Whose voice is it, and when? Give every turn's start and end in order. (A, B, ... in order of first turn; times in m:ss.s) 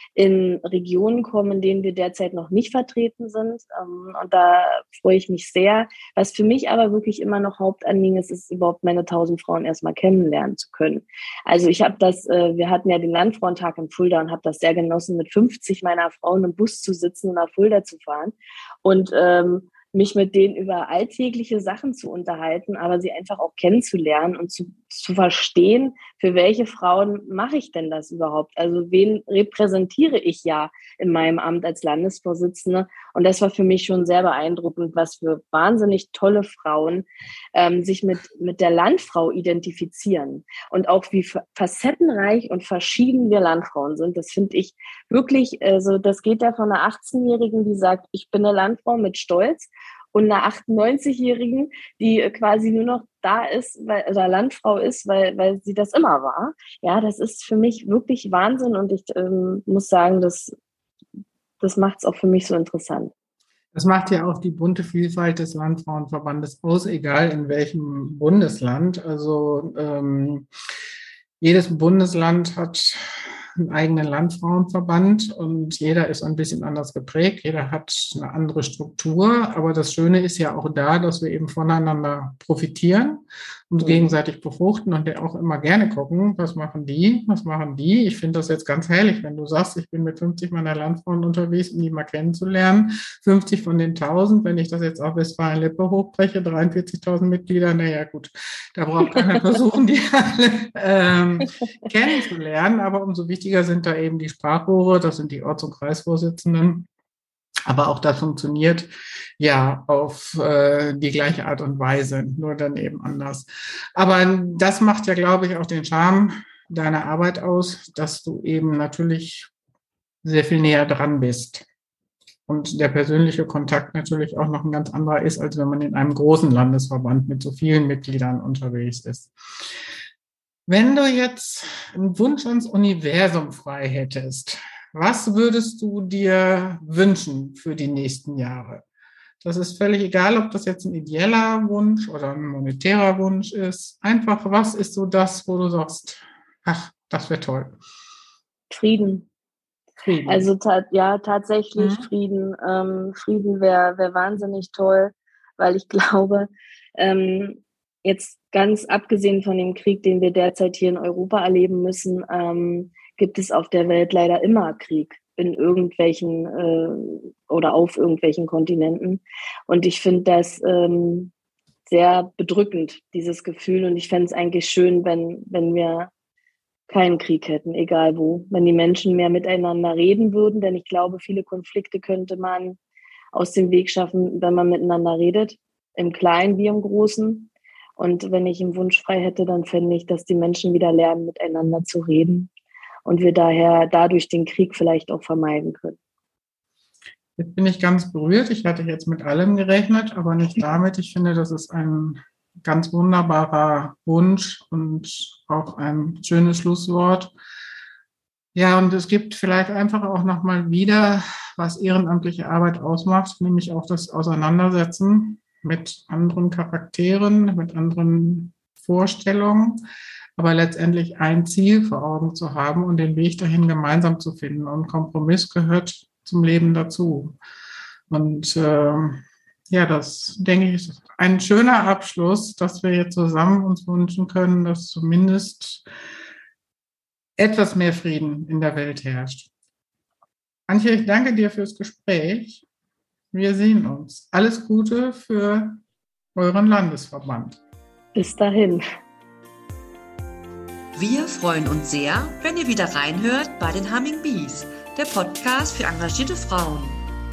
0:00.2-1:00.6 A
1:01.6-1:03.1 A
1:03.7-1:10.5 B
1:11.4-1:46.9 B
1:47.7-1:59.5 B
2:00.2-2:01.7 B
2:02.5-2:09.3 B
2:10.7-2:18.8 B
2:19.4-2:27.8 B
2:28.7-2:29.3 A
2:30.0-2:30.5 B
2:30.2-2:51.3 A
2:31.8-2:32.1 B
2:51.9-2:56.1 A
2:56.9-3:02.8 A
3:03.3-3:12.5 A
3:13.0-3:16.0 A
3:17.4-3:27.3 B
3:28.6-3:39.8 B
3:40.4-3:47.4 B
3:48.1-3:55.8 B
3:57.4-3:59.5 B
4:00.7-4:02.6 B
4:03.3-4:05.8 B
4:06.4-4:07.6 B
4:08.2-4:08.8 A
4:11.0-4:17.0 C